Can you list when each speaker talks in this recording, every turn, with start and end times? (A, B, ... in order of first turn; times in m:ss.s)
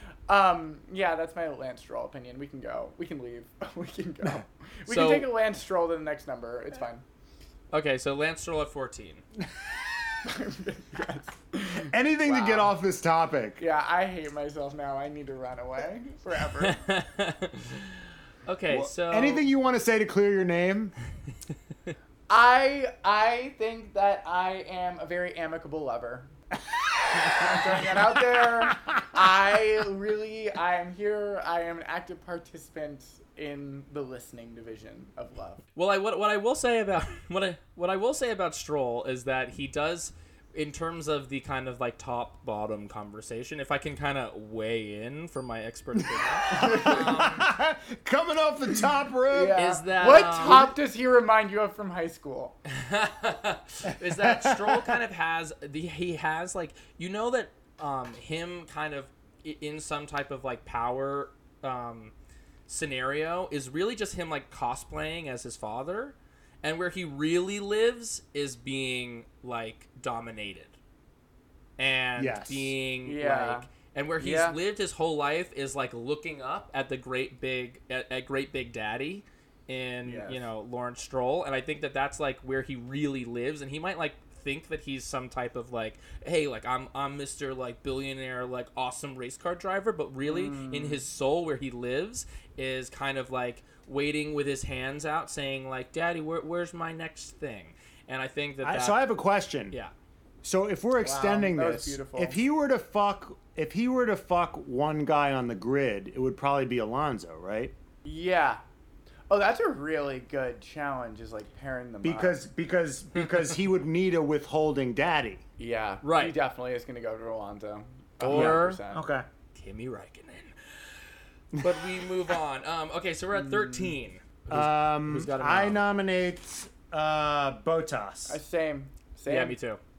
0:00.3-0:07.0 A
0:04.9-0:05.3 B
0:07.7-0:09.2 B
0:10.2-0:12.7 A
0:11.9-0:13.6 C
0:13.6-0:16.8 A
0:16.6-0:19.4 B
0:18.7-0:20.9 C
0:22.3-0:26.4 A
0:27.0-0:35.6 A
0:35.8-0:47.5 B
0:46.0-0:49.6 C
0:46.5-0:47.3 A
0:49.3-0:52.6 A
0:49.6-0:50.8 B
0:52.7-1:02.1 B
0:54.0-0:55.0 C
1:02.7-1:10.8 B
1:11.8-1:39.0 B
1:12.2-1:12.7 C
1:13.0-1:13.7 A
1:14.2-1:14.6 A
1:20.0-1:20.5 A
1:30.2-1:31.0 A
1:38.6-1:39.8 C
1:40.4-1:47.7 C
1:41.0-1:42.4 A
1:48.0-1:48.6 A
1:49.3-1:52.4 A
1:52.0-1:55.4 C
1:53.2-1:53.5 B
1:55.6-1:59.0 A
1:56.0-1:56.4 B
1:58.2-1:58.8 B
1:58.3-1:59.3 C
1:59.6-2:05.8 B
2:01.6-2:02.1 C
2:03.3-2:04.0 A
2:04.5-2:08.4 C
2:08.3-2:09.6 A
2:09.3-2:09.8 B